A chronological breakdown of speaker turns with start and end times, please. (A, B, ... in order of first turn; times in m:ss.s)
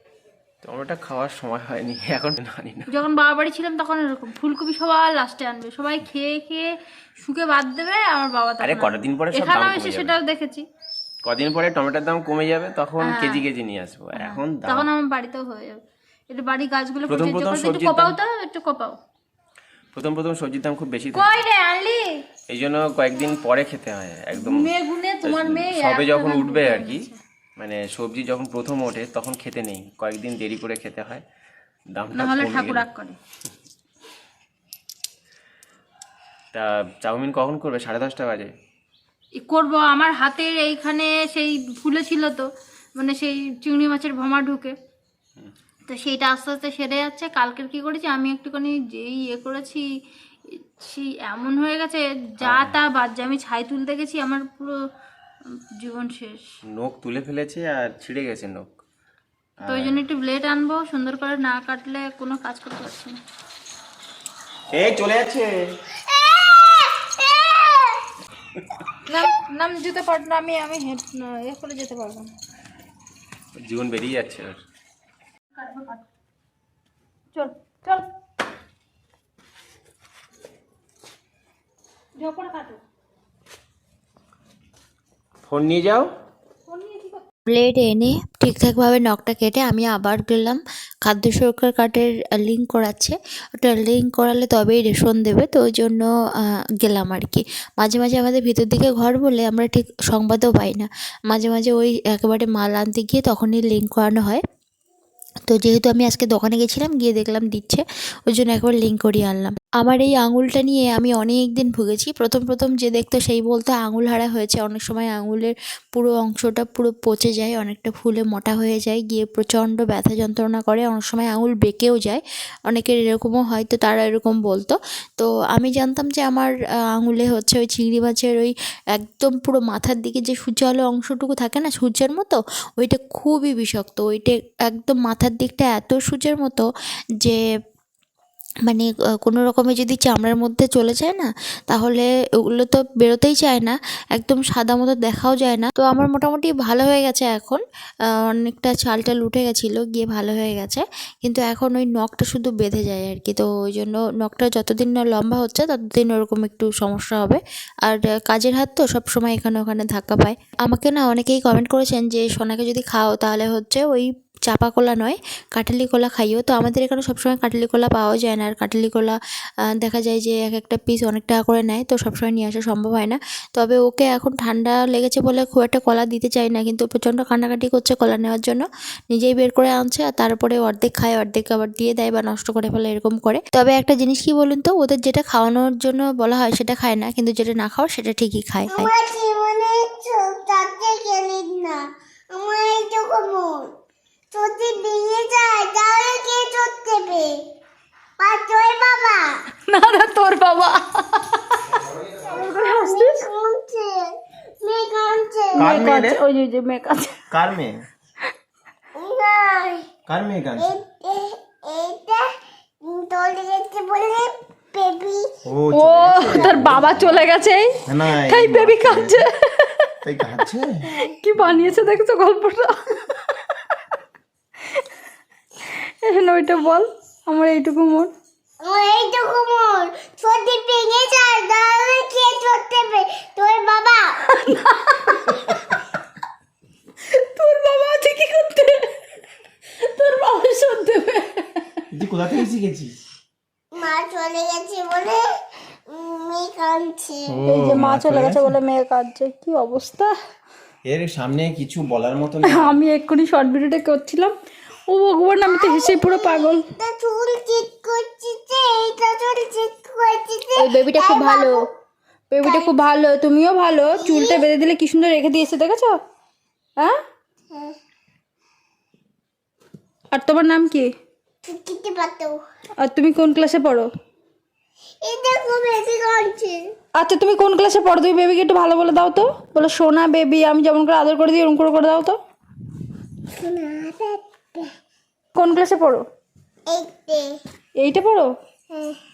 0:00.6-0:02.9 A
0:02.9-0:06.7 B
0:07.2-0:10.6 B
0:08.6-0:10.2 A
0:11.2-0:14.9 A
0:13.0-0:13.5 B
0:14.2-0:15.8 B
0:16.3-0:19.0 B
0:17.1-0:18.2 A
0:19.9-0:21.3 A
0:21.1-0:22.2 B
0:22.5-0:27.1 A
0:24.3-0:27.2 B
0:27.6-0:31.2 A
0:31.9-0:32.9 A
0:32.1-0:33.2 B
0:36.5-0:38.5 A
0:39.4-0:44.7 B
0:45.9-0:49.9 B
0:50.8-0:54.8 B
0:52.4-0:52.8 A
0:55.8-0:56.4 B
0:56.8-0:58.7 A
0:59.6-1:00.0 A
0:59.7-1:03.2 B
1:04.7-1:05.7 A
1:06.1-1:08.0 C
1:09.1-1:12.3 B
1:13.6-1:14.6 A
1:15.6-1:16.0 B
1:17.4-1:18.1 B
1:22.2-1:22.8 B
1:25.4-1:26.1 A
1:26.7-1:27.2 B
1:27.5-1:44.4 D
1:45.5-2:16.7 D
2:18.7-2:27.6 D
2:28.1-2:49.2 D
2:49.7-3:08.9 D
3:08.7-3:13.6 C
3:14.3-3:17.4 C
3:18.2-3:19.4 C
3:19.7-3:21.6 B
3:21.7-3:22.2 A
3:22.2-3:25.8 C
3:22.3-3:23.2 B
3:25.6-3:26.2 A
3:25.6-3:27.2 B
3:27.3-3:27.8 A
3:29.0-3:29.9 C
3:30.1-3:30.7 A
3:30.6-3:32.3 C
3:32.8-3:35.3 C
3:35.5-3:37.3 A
3:35.7-3:40.0 B
3:37.9-3:39.2 A
3:40.0-3:41.9 A
3:41.0-3:43.4 B
3:45.6-3:48.1 B
3:48.6-3:54.2 C
3:54.3-3:55.8 B
3:57.1-3:59.0 B
3:59.8-4:01.8 B
4:01.9-4:02.9 A
4:03.8-4:05.2 C
4:05.9-4:07.4 C
4:07.3-4:08.6 A
4:07.5-4:10.2 B
4:10.9-4:12.8 A
4:12.4-4:14.3 B
4:14.9-4:16.6 B
4:15.5-4:21.7 C
4:20.6-4:21.6 B
4:22.3-4:26.0 B
4:22.4-4:22.7 C
4:23.9-4:24.4 C
4:30.1-4:30.9 B
4:31.4-4:32.4 C
4:32.8-4:33.9 B
4:35.0-4:36.7 C
4:37.0-4:42.2 B
4:43.3-4:44.7 C
4:45.4-4:46.0 B
4:46.7-4:47.3 C
4:47.8-4:48.3 B
4:48.7-4:49.0 C